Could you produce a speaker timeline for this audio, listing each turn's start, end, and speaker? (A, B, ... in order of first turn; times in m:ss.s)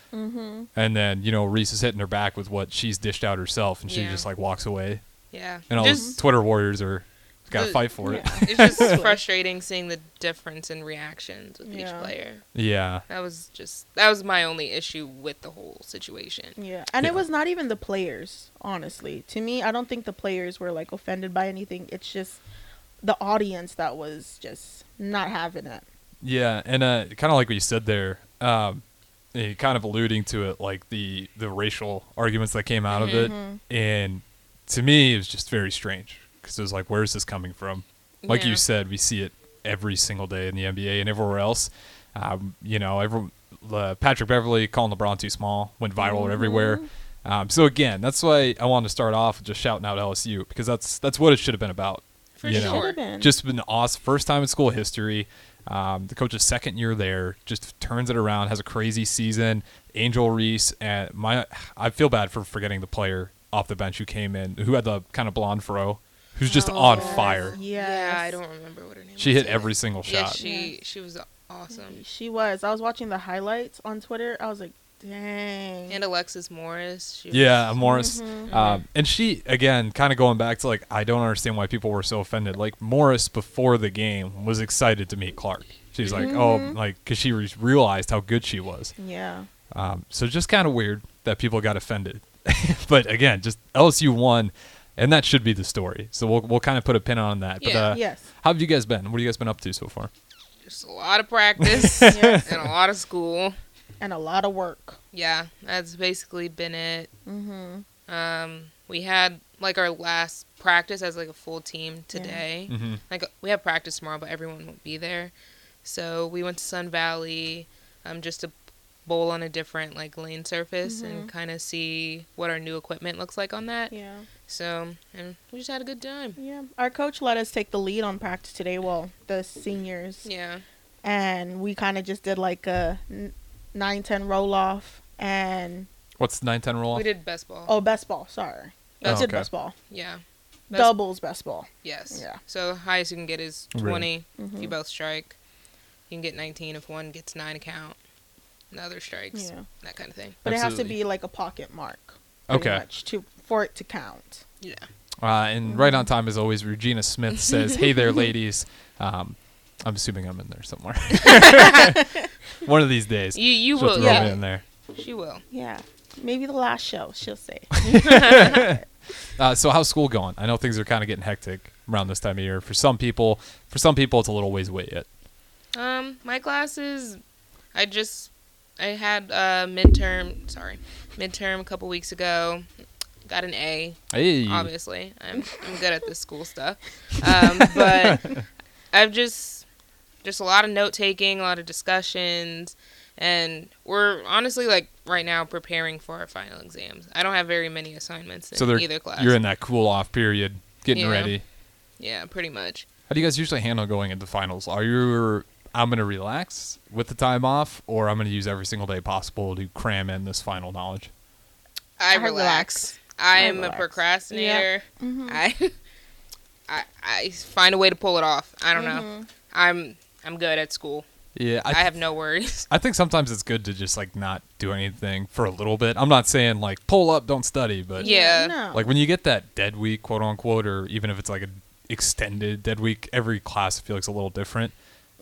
0:00.1-0:00.7 A
0:00.8-0:05.0 B
0:03.9-0:04.3 C
0:05.3-0:06.2 C
0:05.7-0:09.0 B
0:05.8-0:06.2 A
0:07.5-0:12.4 C
0:08.0-0:09.2 A
0:11.7-0:12.1 A
0:12.5-0:13.0 B
0:13.1-0:16.6 C
0:16.6-0:22.4 A
0:23.0-0:25.8 A
0:26.2-0:28.8 B
0:29.3-1:07.6 B
0:32.9-0:33.3 C
0:33.1-0:33.6 A
0:38.2-0:38.6 C
0:46.0-0:46.9 A
0:52.4-0:53.0 C
0:52.4-0:53.3 A
1:06.5-1:08.4 A
1:06.5-1:12.0 C
1:09.2-1:10.4 B
1:10.4-1:10.7 A
1:11.8-1:16.0 A
1:15.9-1:17.8 C
1:17.3-1:28.9 B
1:17.8-1:18.5 A
1:18.5-1:18.8 C
1:26.0-1:26.3 C
1:26.2-1:26.8 A
1:29.0-1:29.5 A
1:29.7-1:40.1 B
1:37.6-1:37.9 C
1:37.9-1:38.3 A
1:40.7-1:43.6 C
1:41.6-1:42.7 B
1:42.0-1:42.5 A
1:44.0-1:45.0 A
1:45.1-1:47.1 C
1:47.3-1:47.8 A
1:48.1-1:55.3 C
1:52.1-1:52.4 A
1:52.7-1:53.0 B
1:55.8-1:58.5 C
1:59.1-2:03.9 C
2:00.8-2:01.3 A
2:03.9-2:04.3 A
2:04.5-2:06.4 C
2:06.4-2:10.3 A
2:10.2-2:10.6 C
2:11.0-2:15.9 A
2:16.2-2:17.1 B
2:16.9-2:17.7 C
2:17.7-2:19.8 A
2:19.0-2:19.3 C
2:19.0-2:19.5 B
2:19.9-2:20.9 C
2:20.7-2:22.4 A
2:21.8-2:25.4 C
2:23.7-2:24.1 B
2:24.4-2:24.7 A
2:26.1-2:28.0 C
2:28.7-2:30.4 C
2:29.3-2:29.7 A
2:30.4-2:34.4 A
2:30.4-2:31.0 B
2:32.5-2:32.8 B
2:34.6-2:34.9 C
2:35.2-2:42.1 B
2:35.6-2:36.1 A
2:41.2-2:41.9 C
2:41.4-2:42.3 A
2:42.6-2:44.6 B
2:43.3-2:44.4 C
2:44.0-2:44.4 A
2:44.9-2:45.4 C
2:45.5-2:48.8 A
2:47.8-2:48.6 C
2:47.8-2:48.8 B
2:49.4-2:55.1 B
2:55.7-2:57.2 C
2:57.7-3:02.7 C
3:03.3-3:08.4 C
3:04.1-3:04.7 B
3:07.6-3:08.4 B
3:08.9-3:09.6 C
3:10.2-3:19.4 C
3:18.5-3:21.4 B
3:20.9-3:21.4 C
3:22.0-3:22.9 C
3:23.1-3:31.1 B
3:32.0-3:35.8 C
3:32.1-3:35.4 A
3:36.7-3:41.1 C
3:38.7-3:39.3 A
3:41.4-3:41.9 B
3:41.7-3:42.7 C
3:42.7-3:48.1 B
3:48.0-3:48.6 C
3:48.0-3:48.9 A
3:48.7-3:54.7 B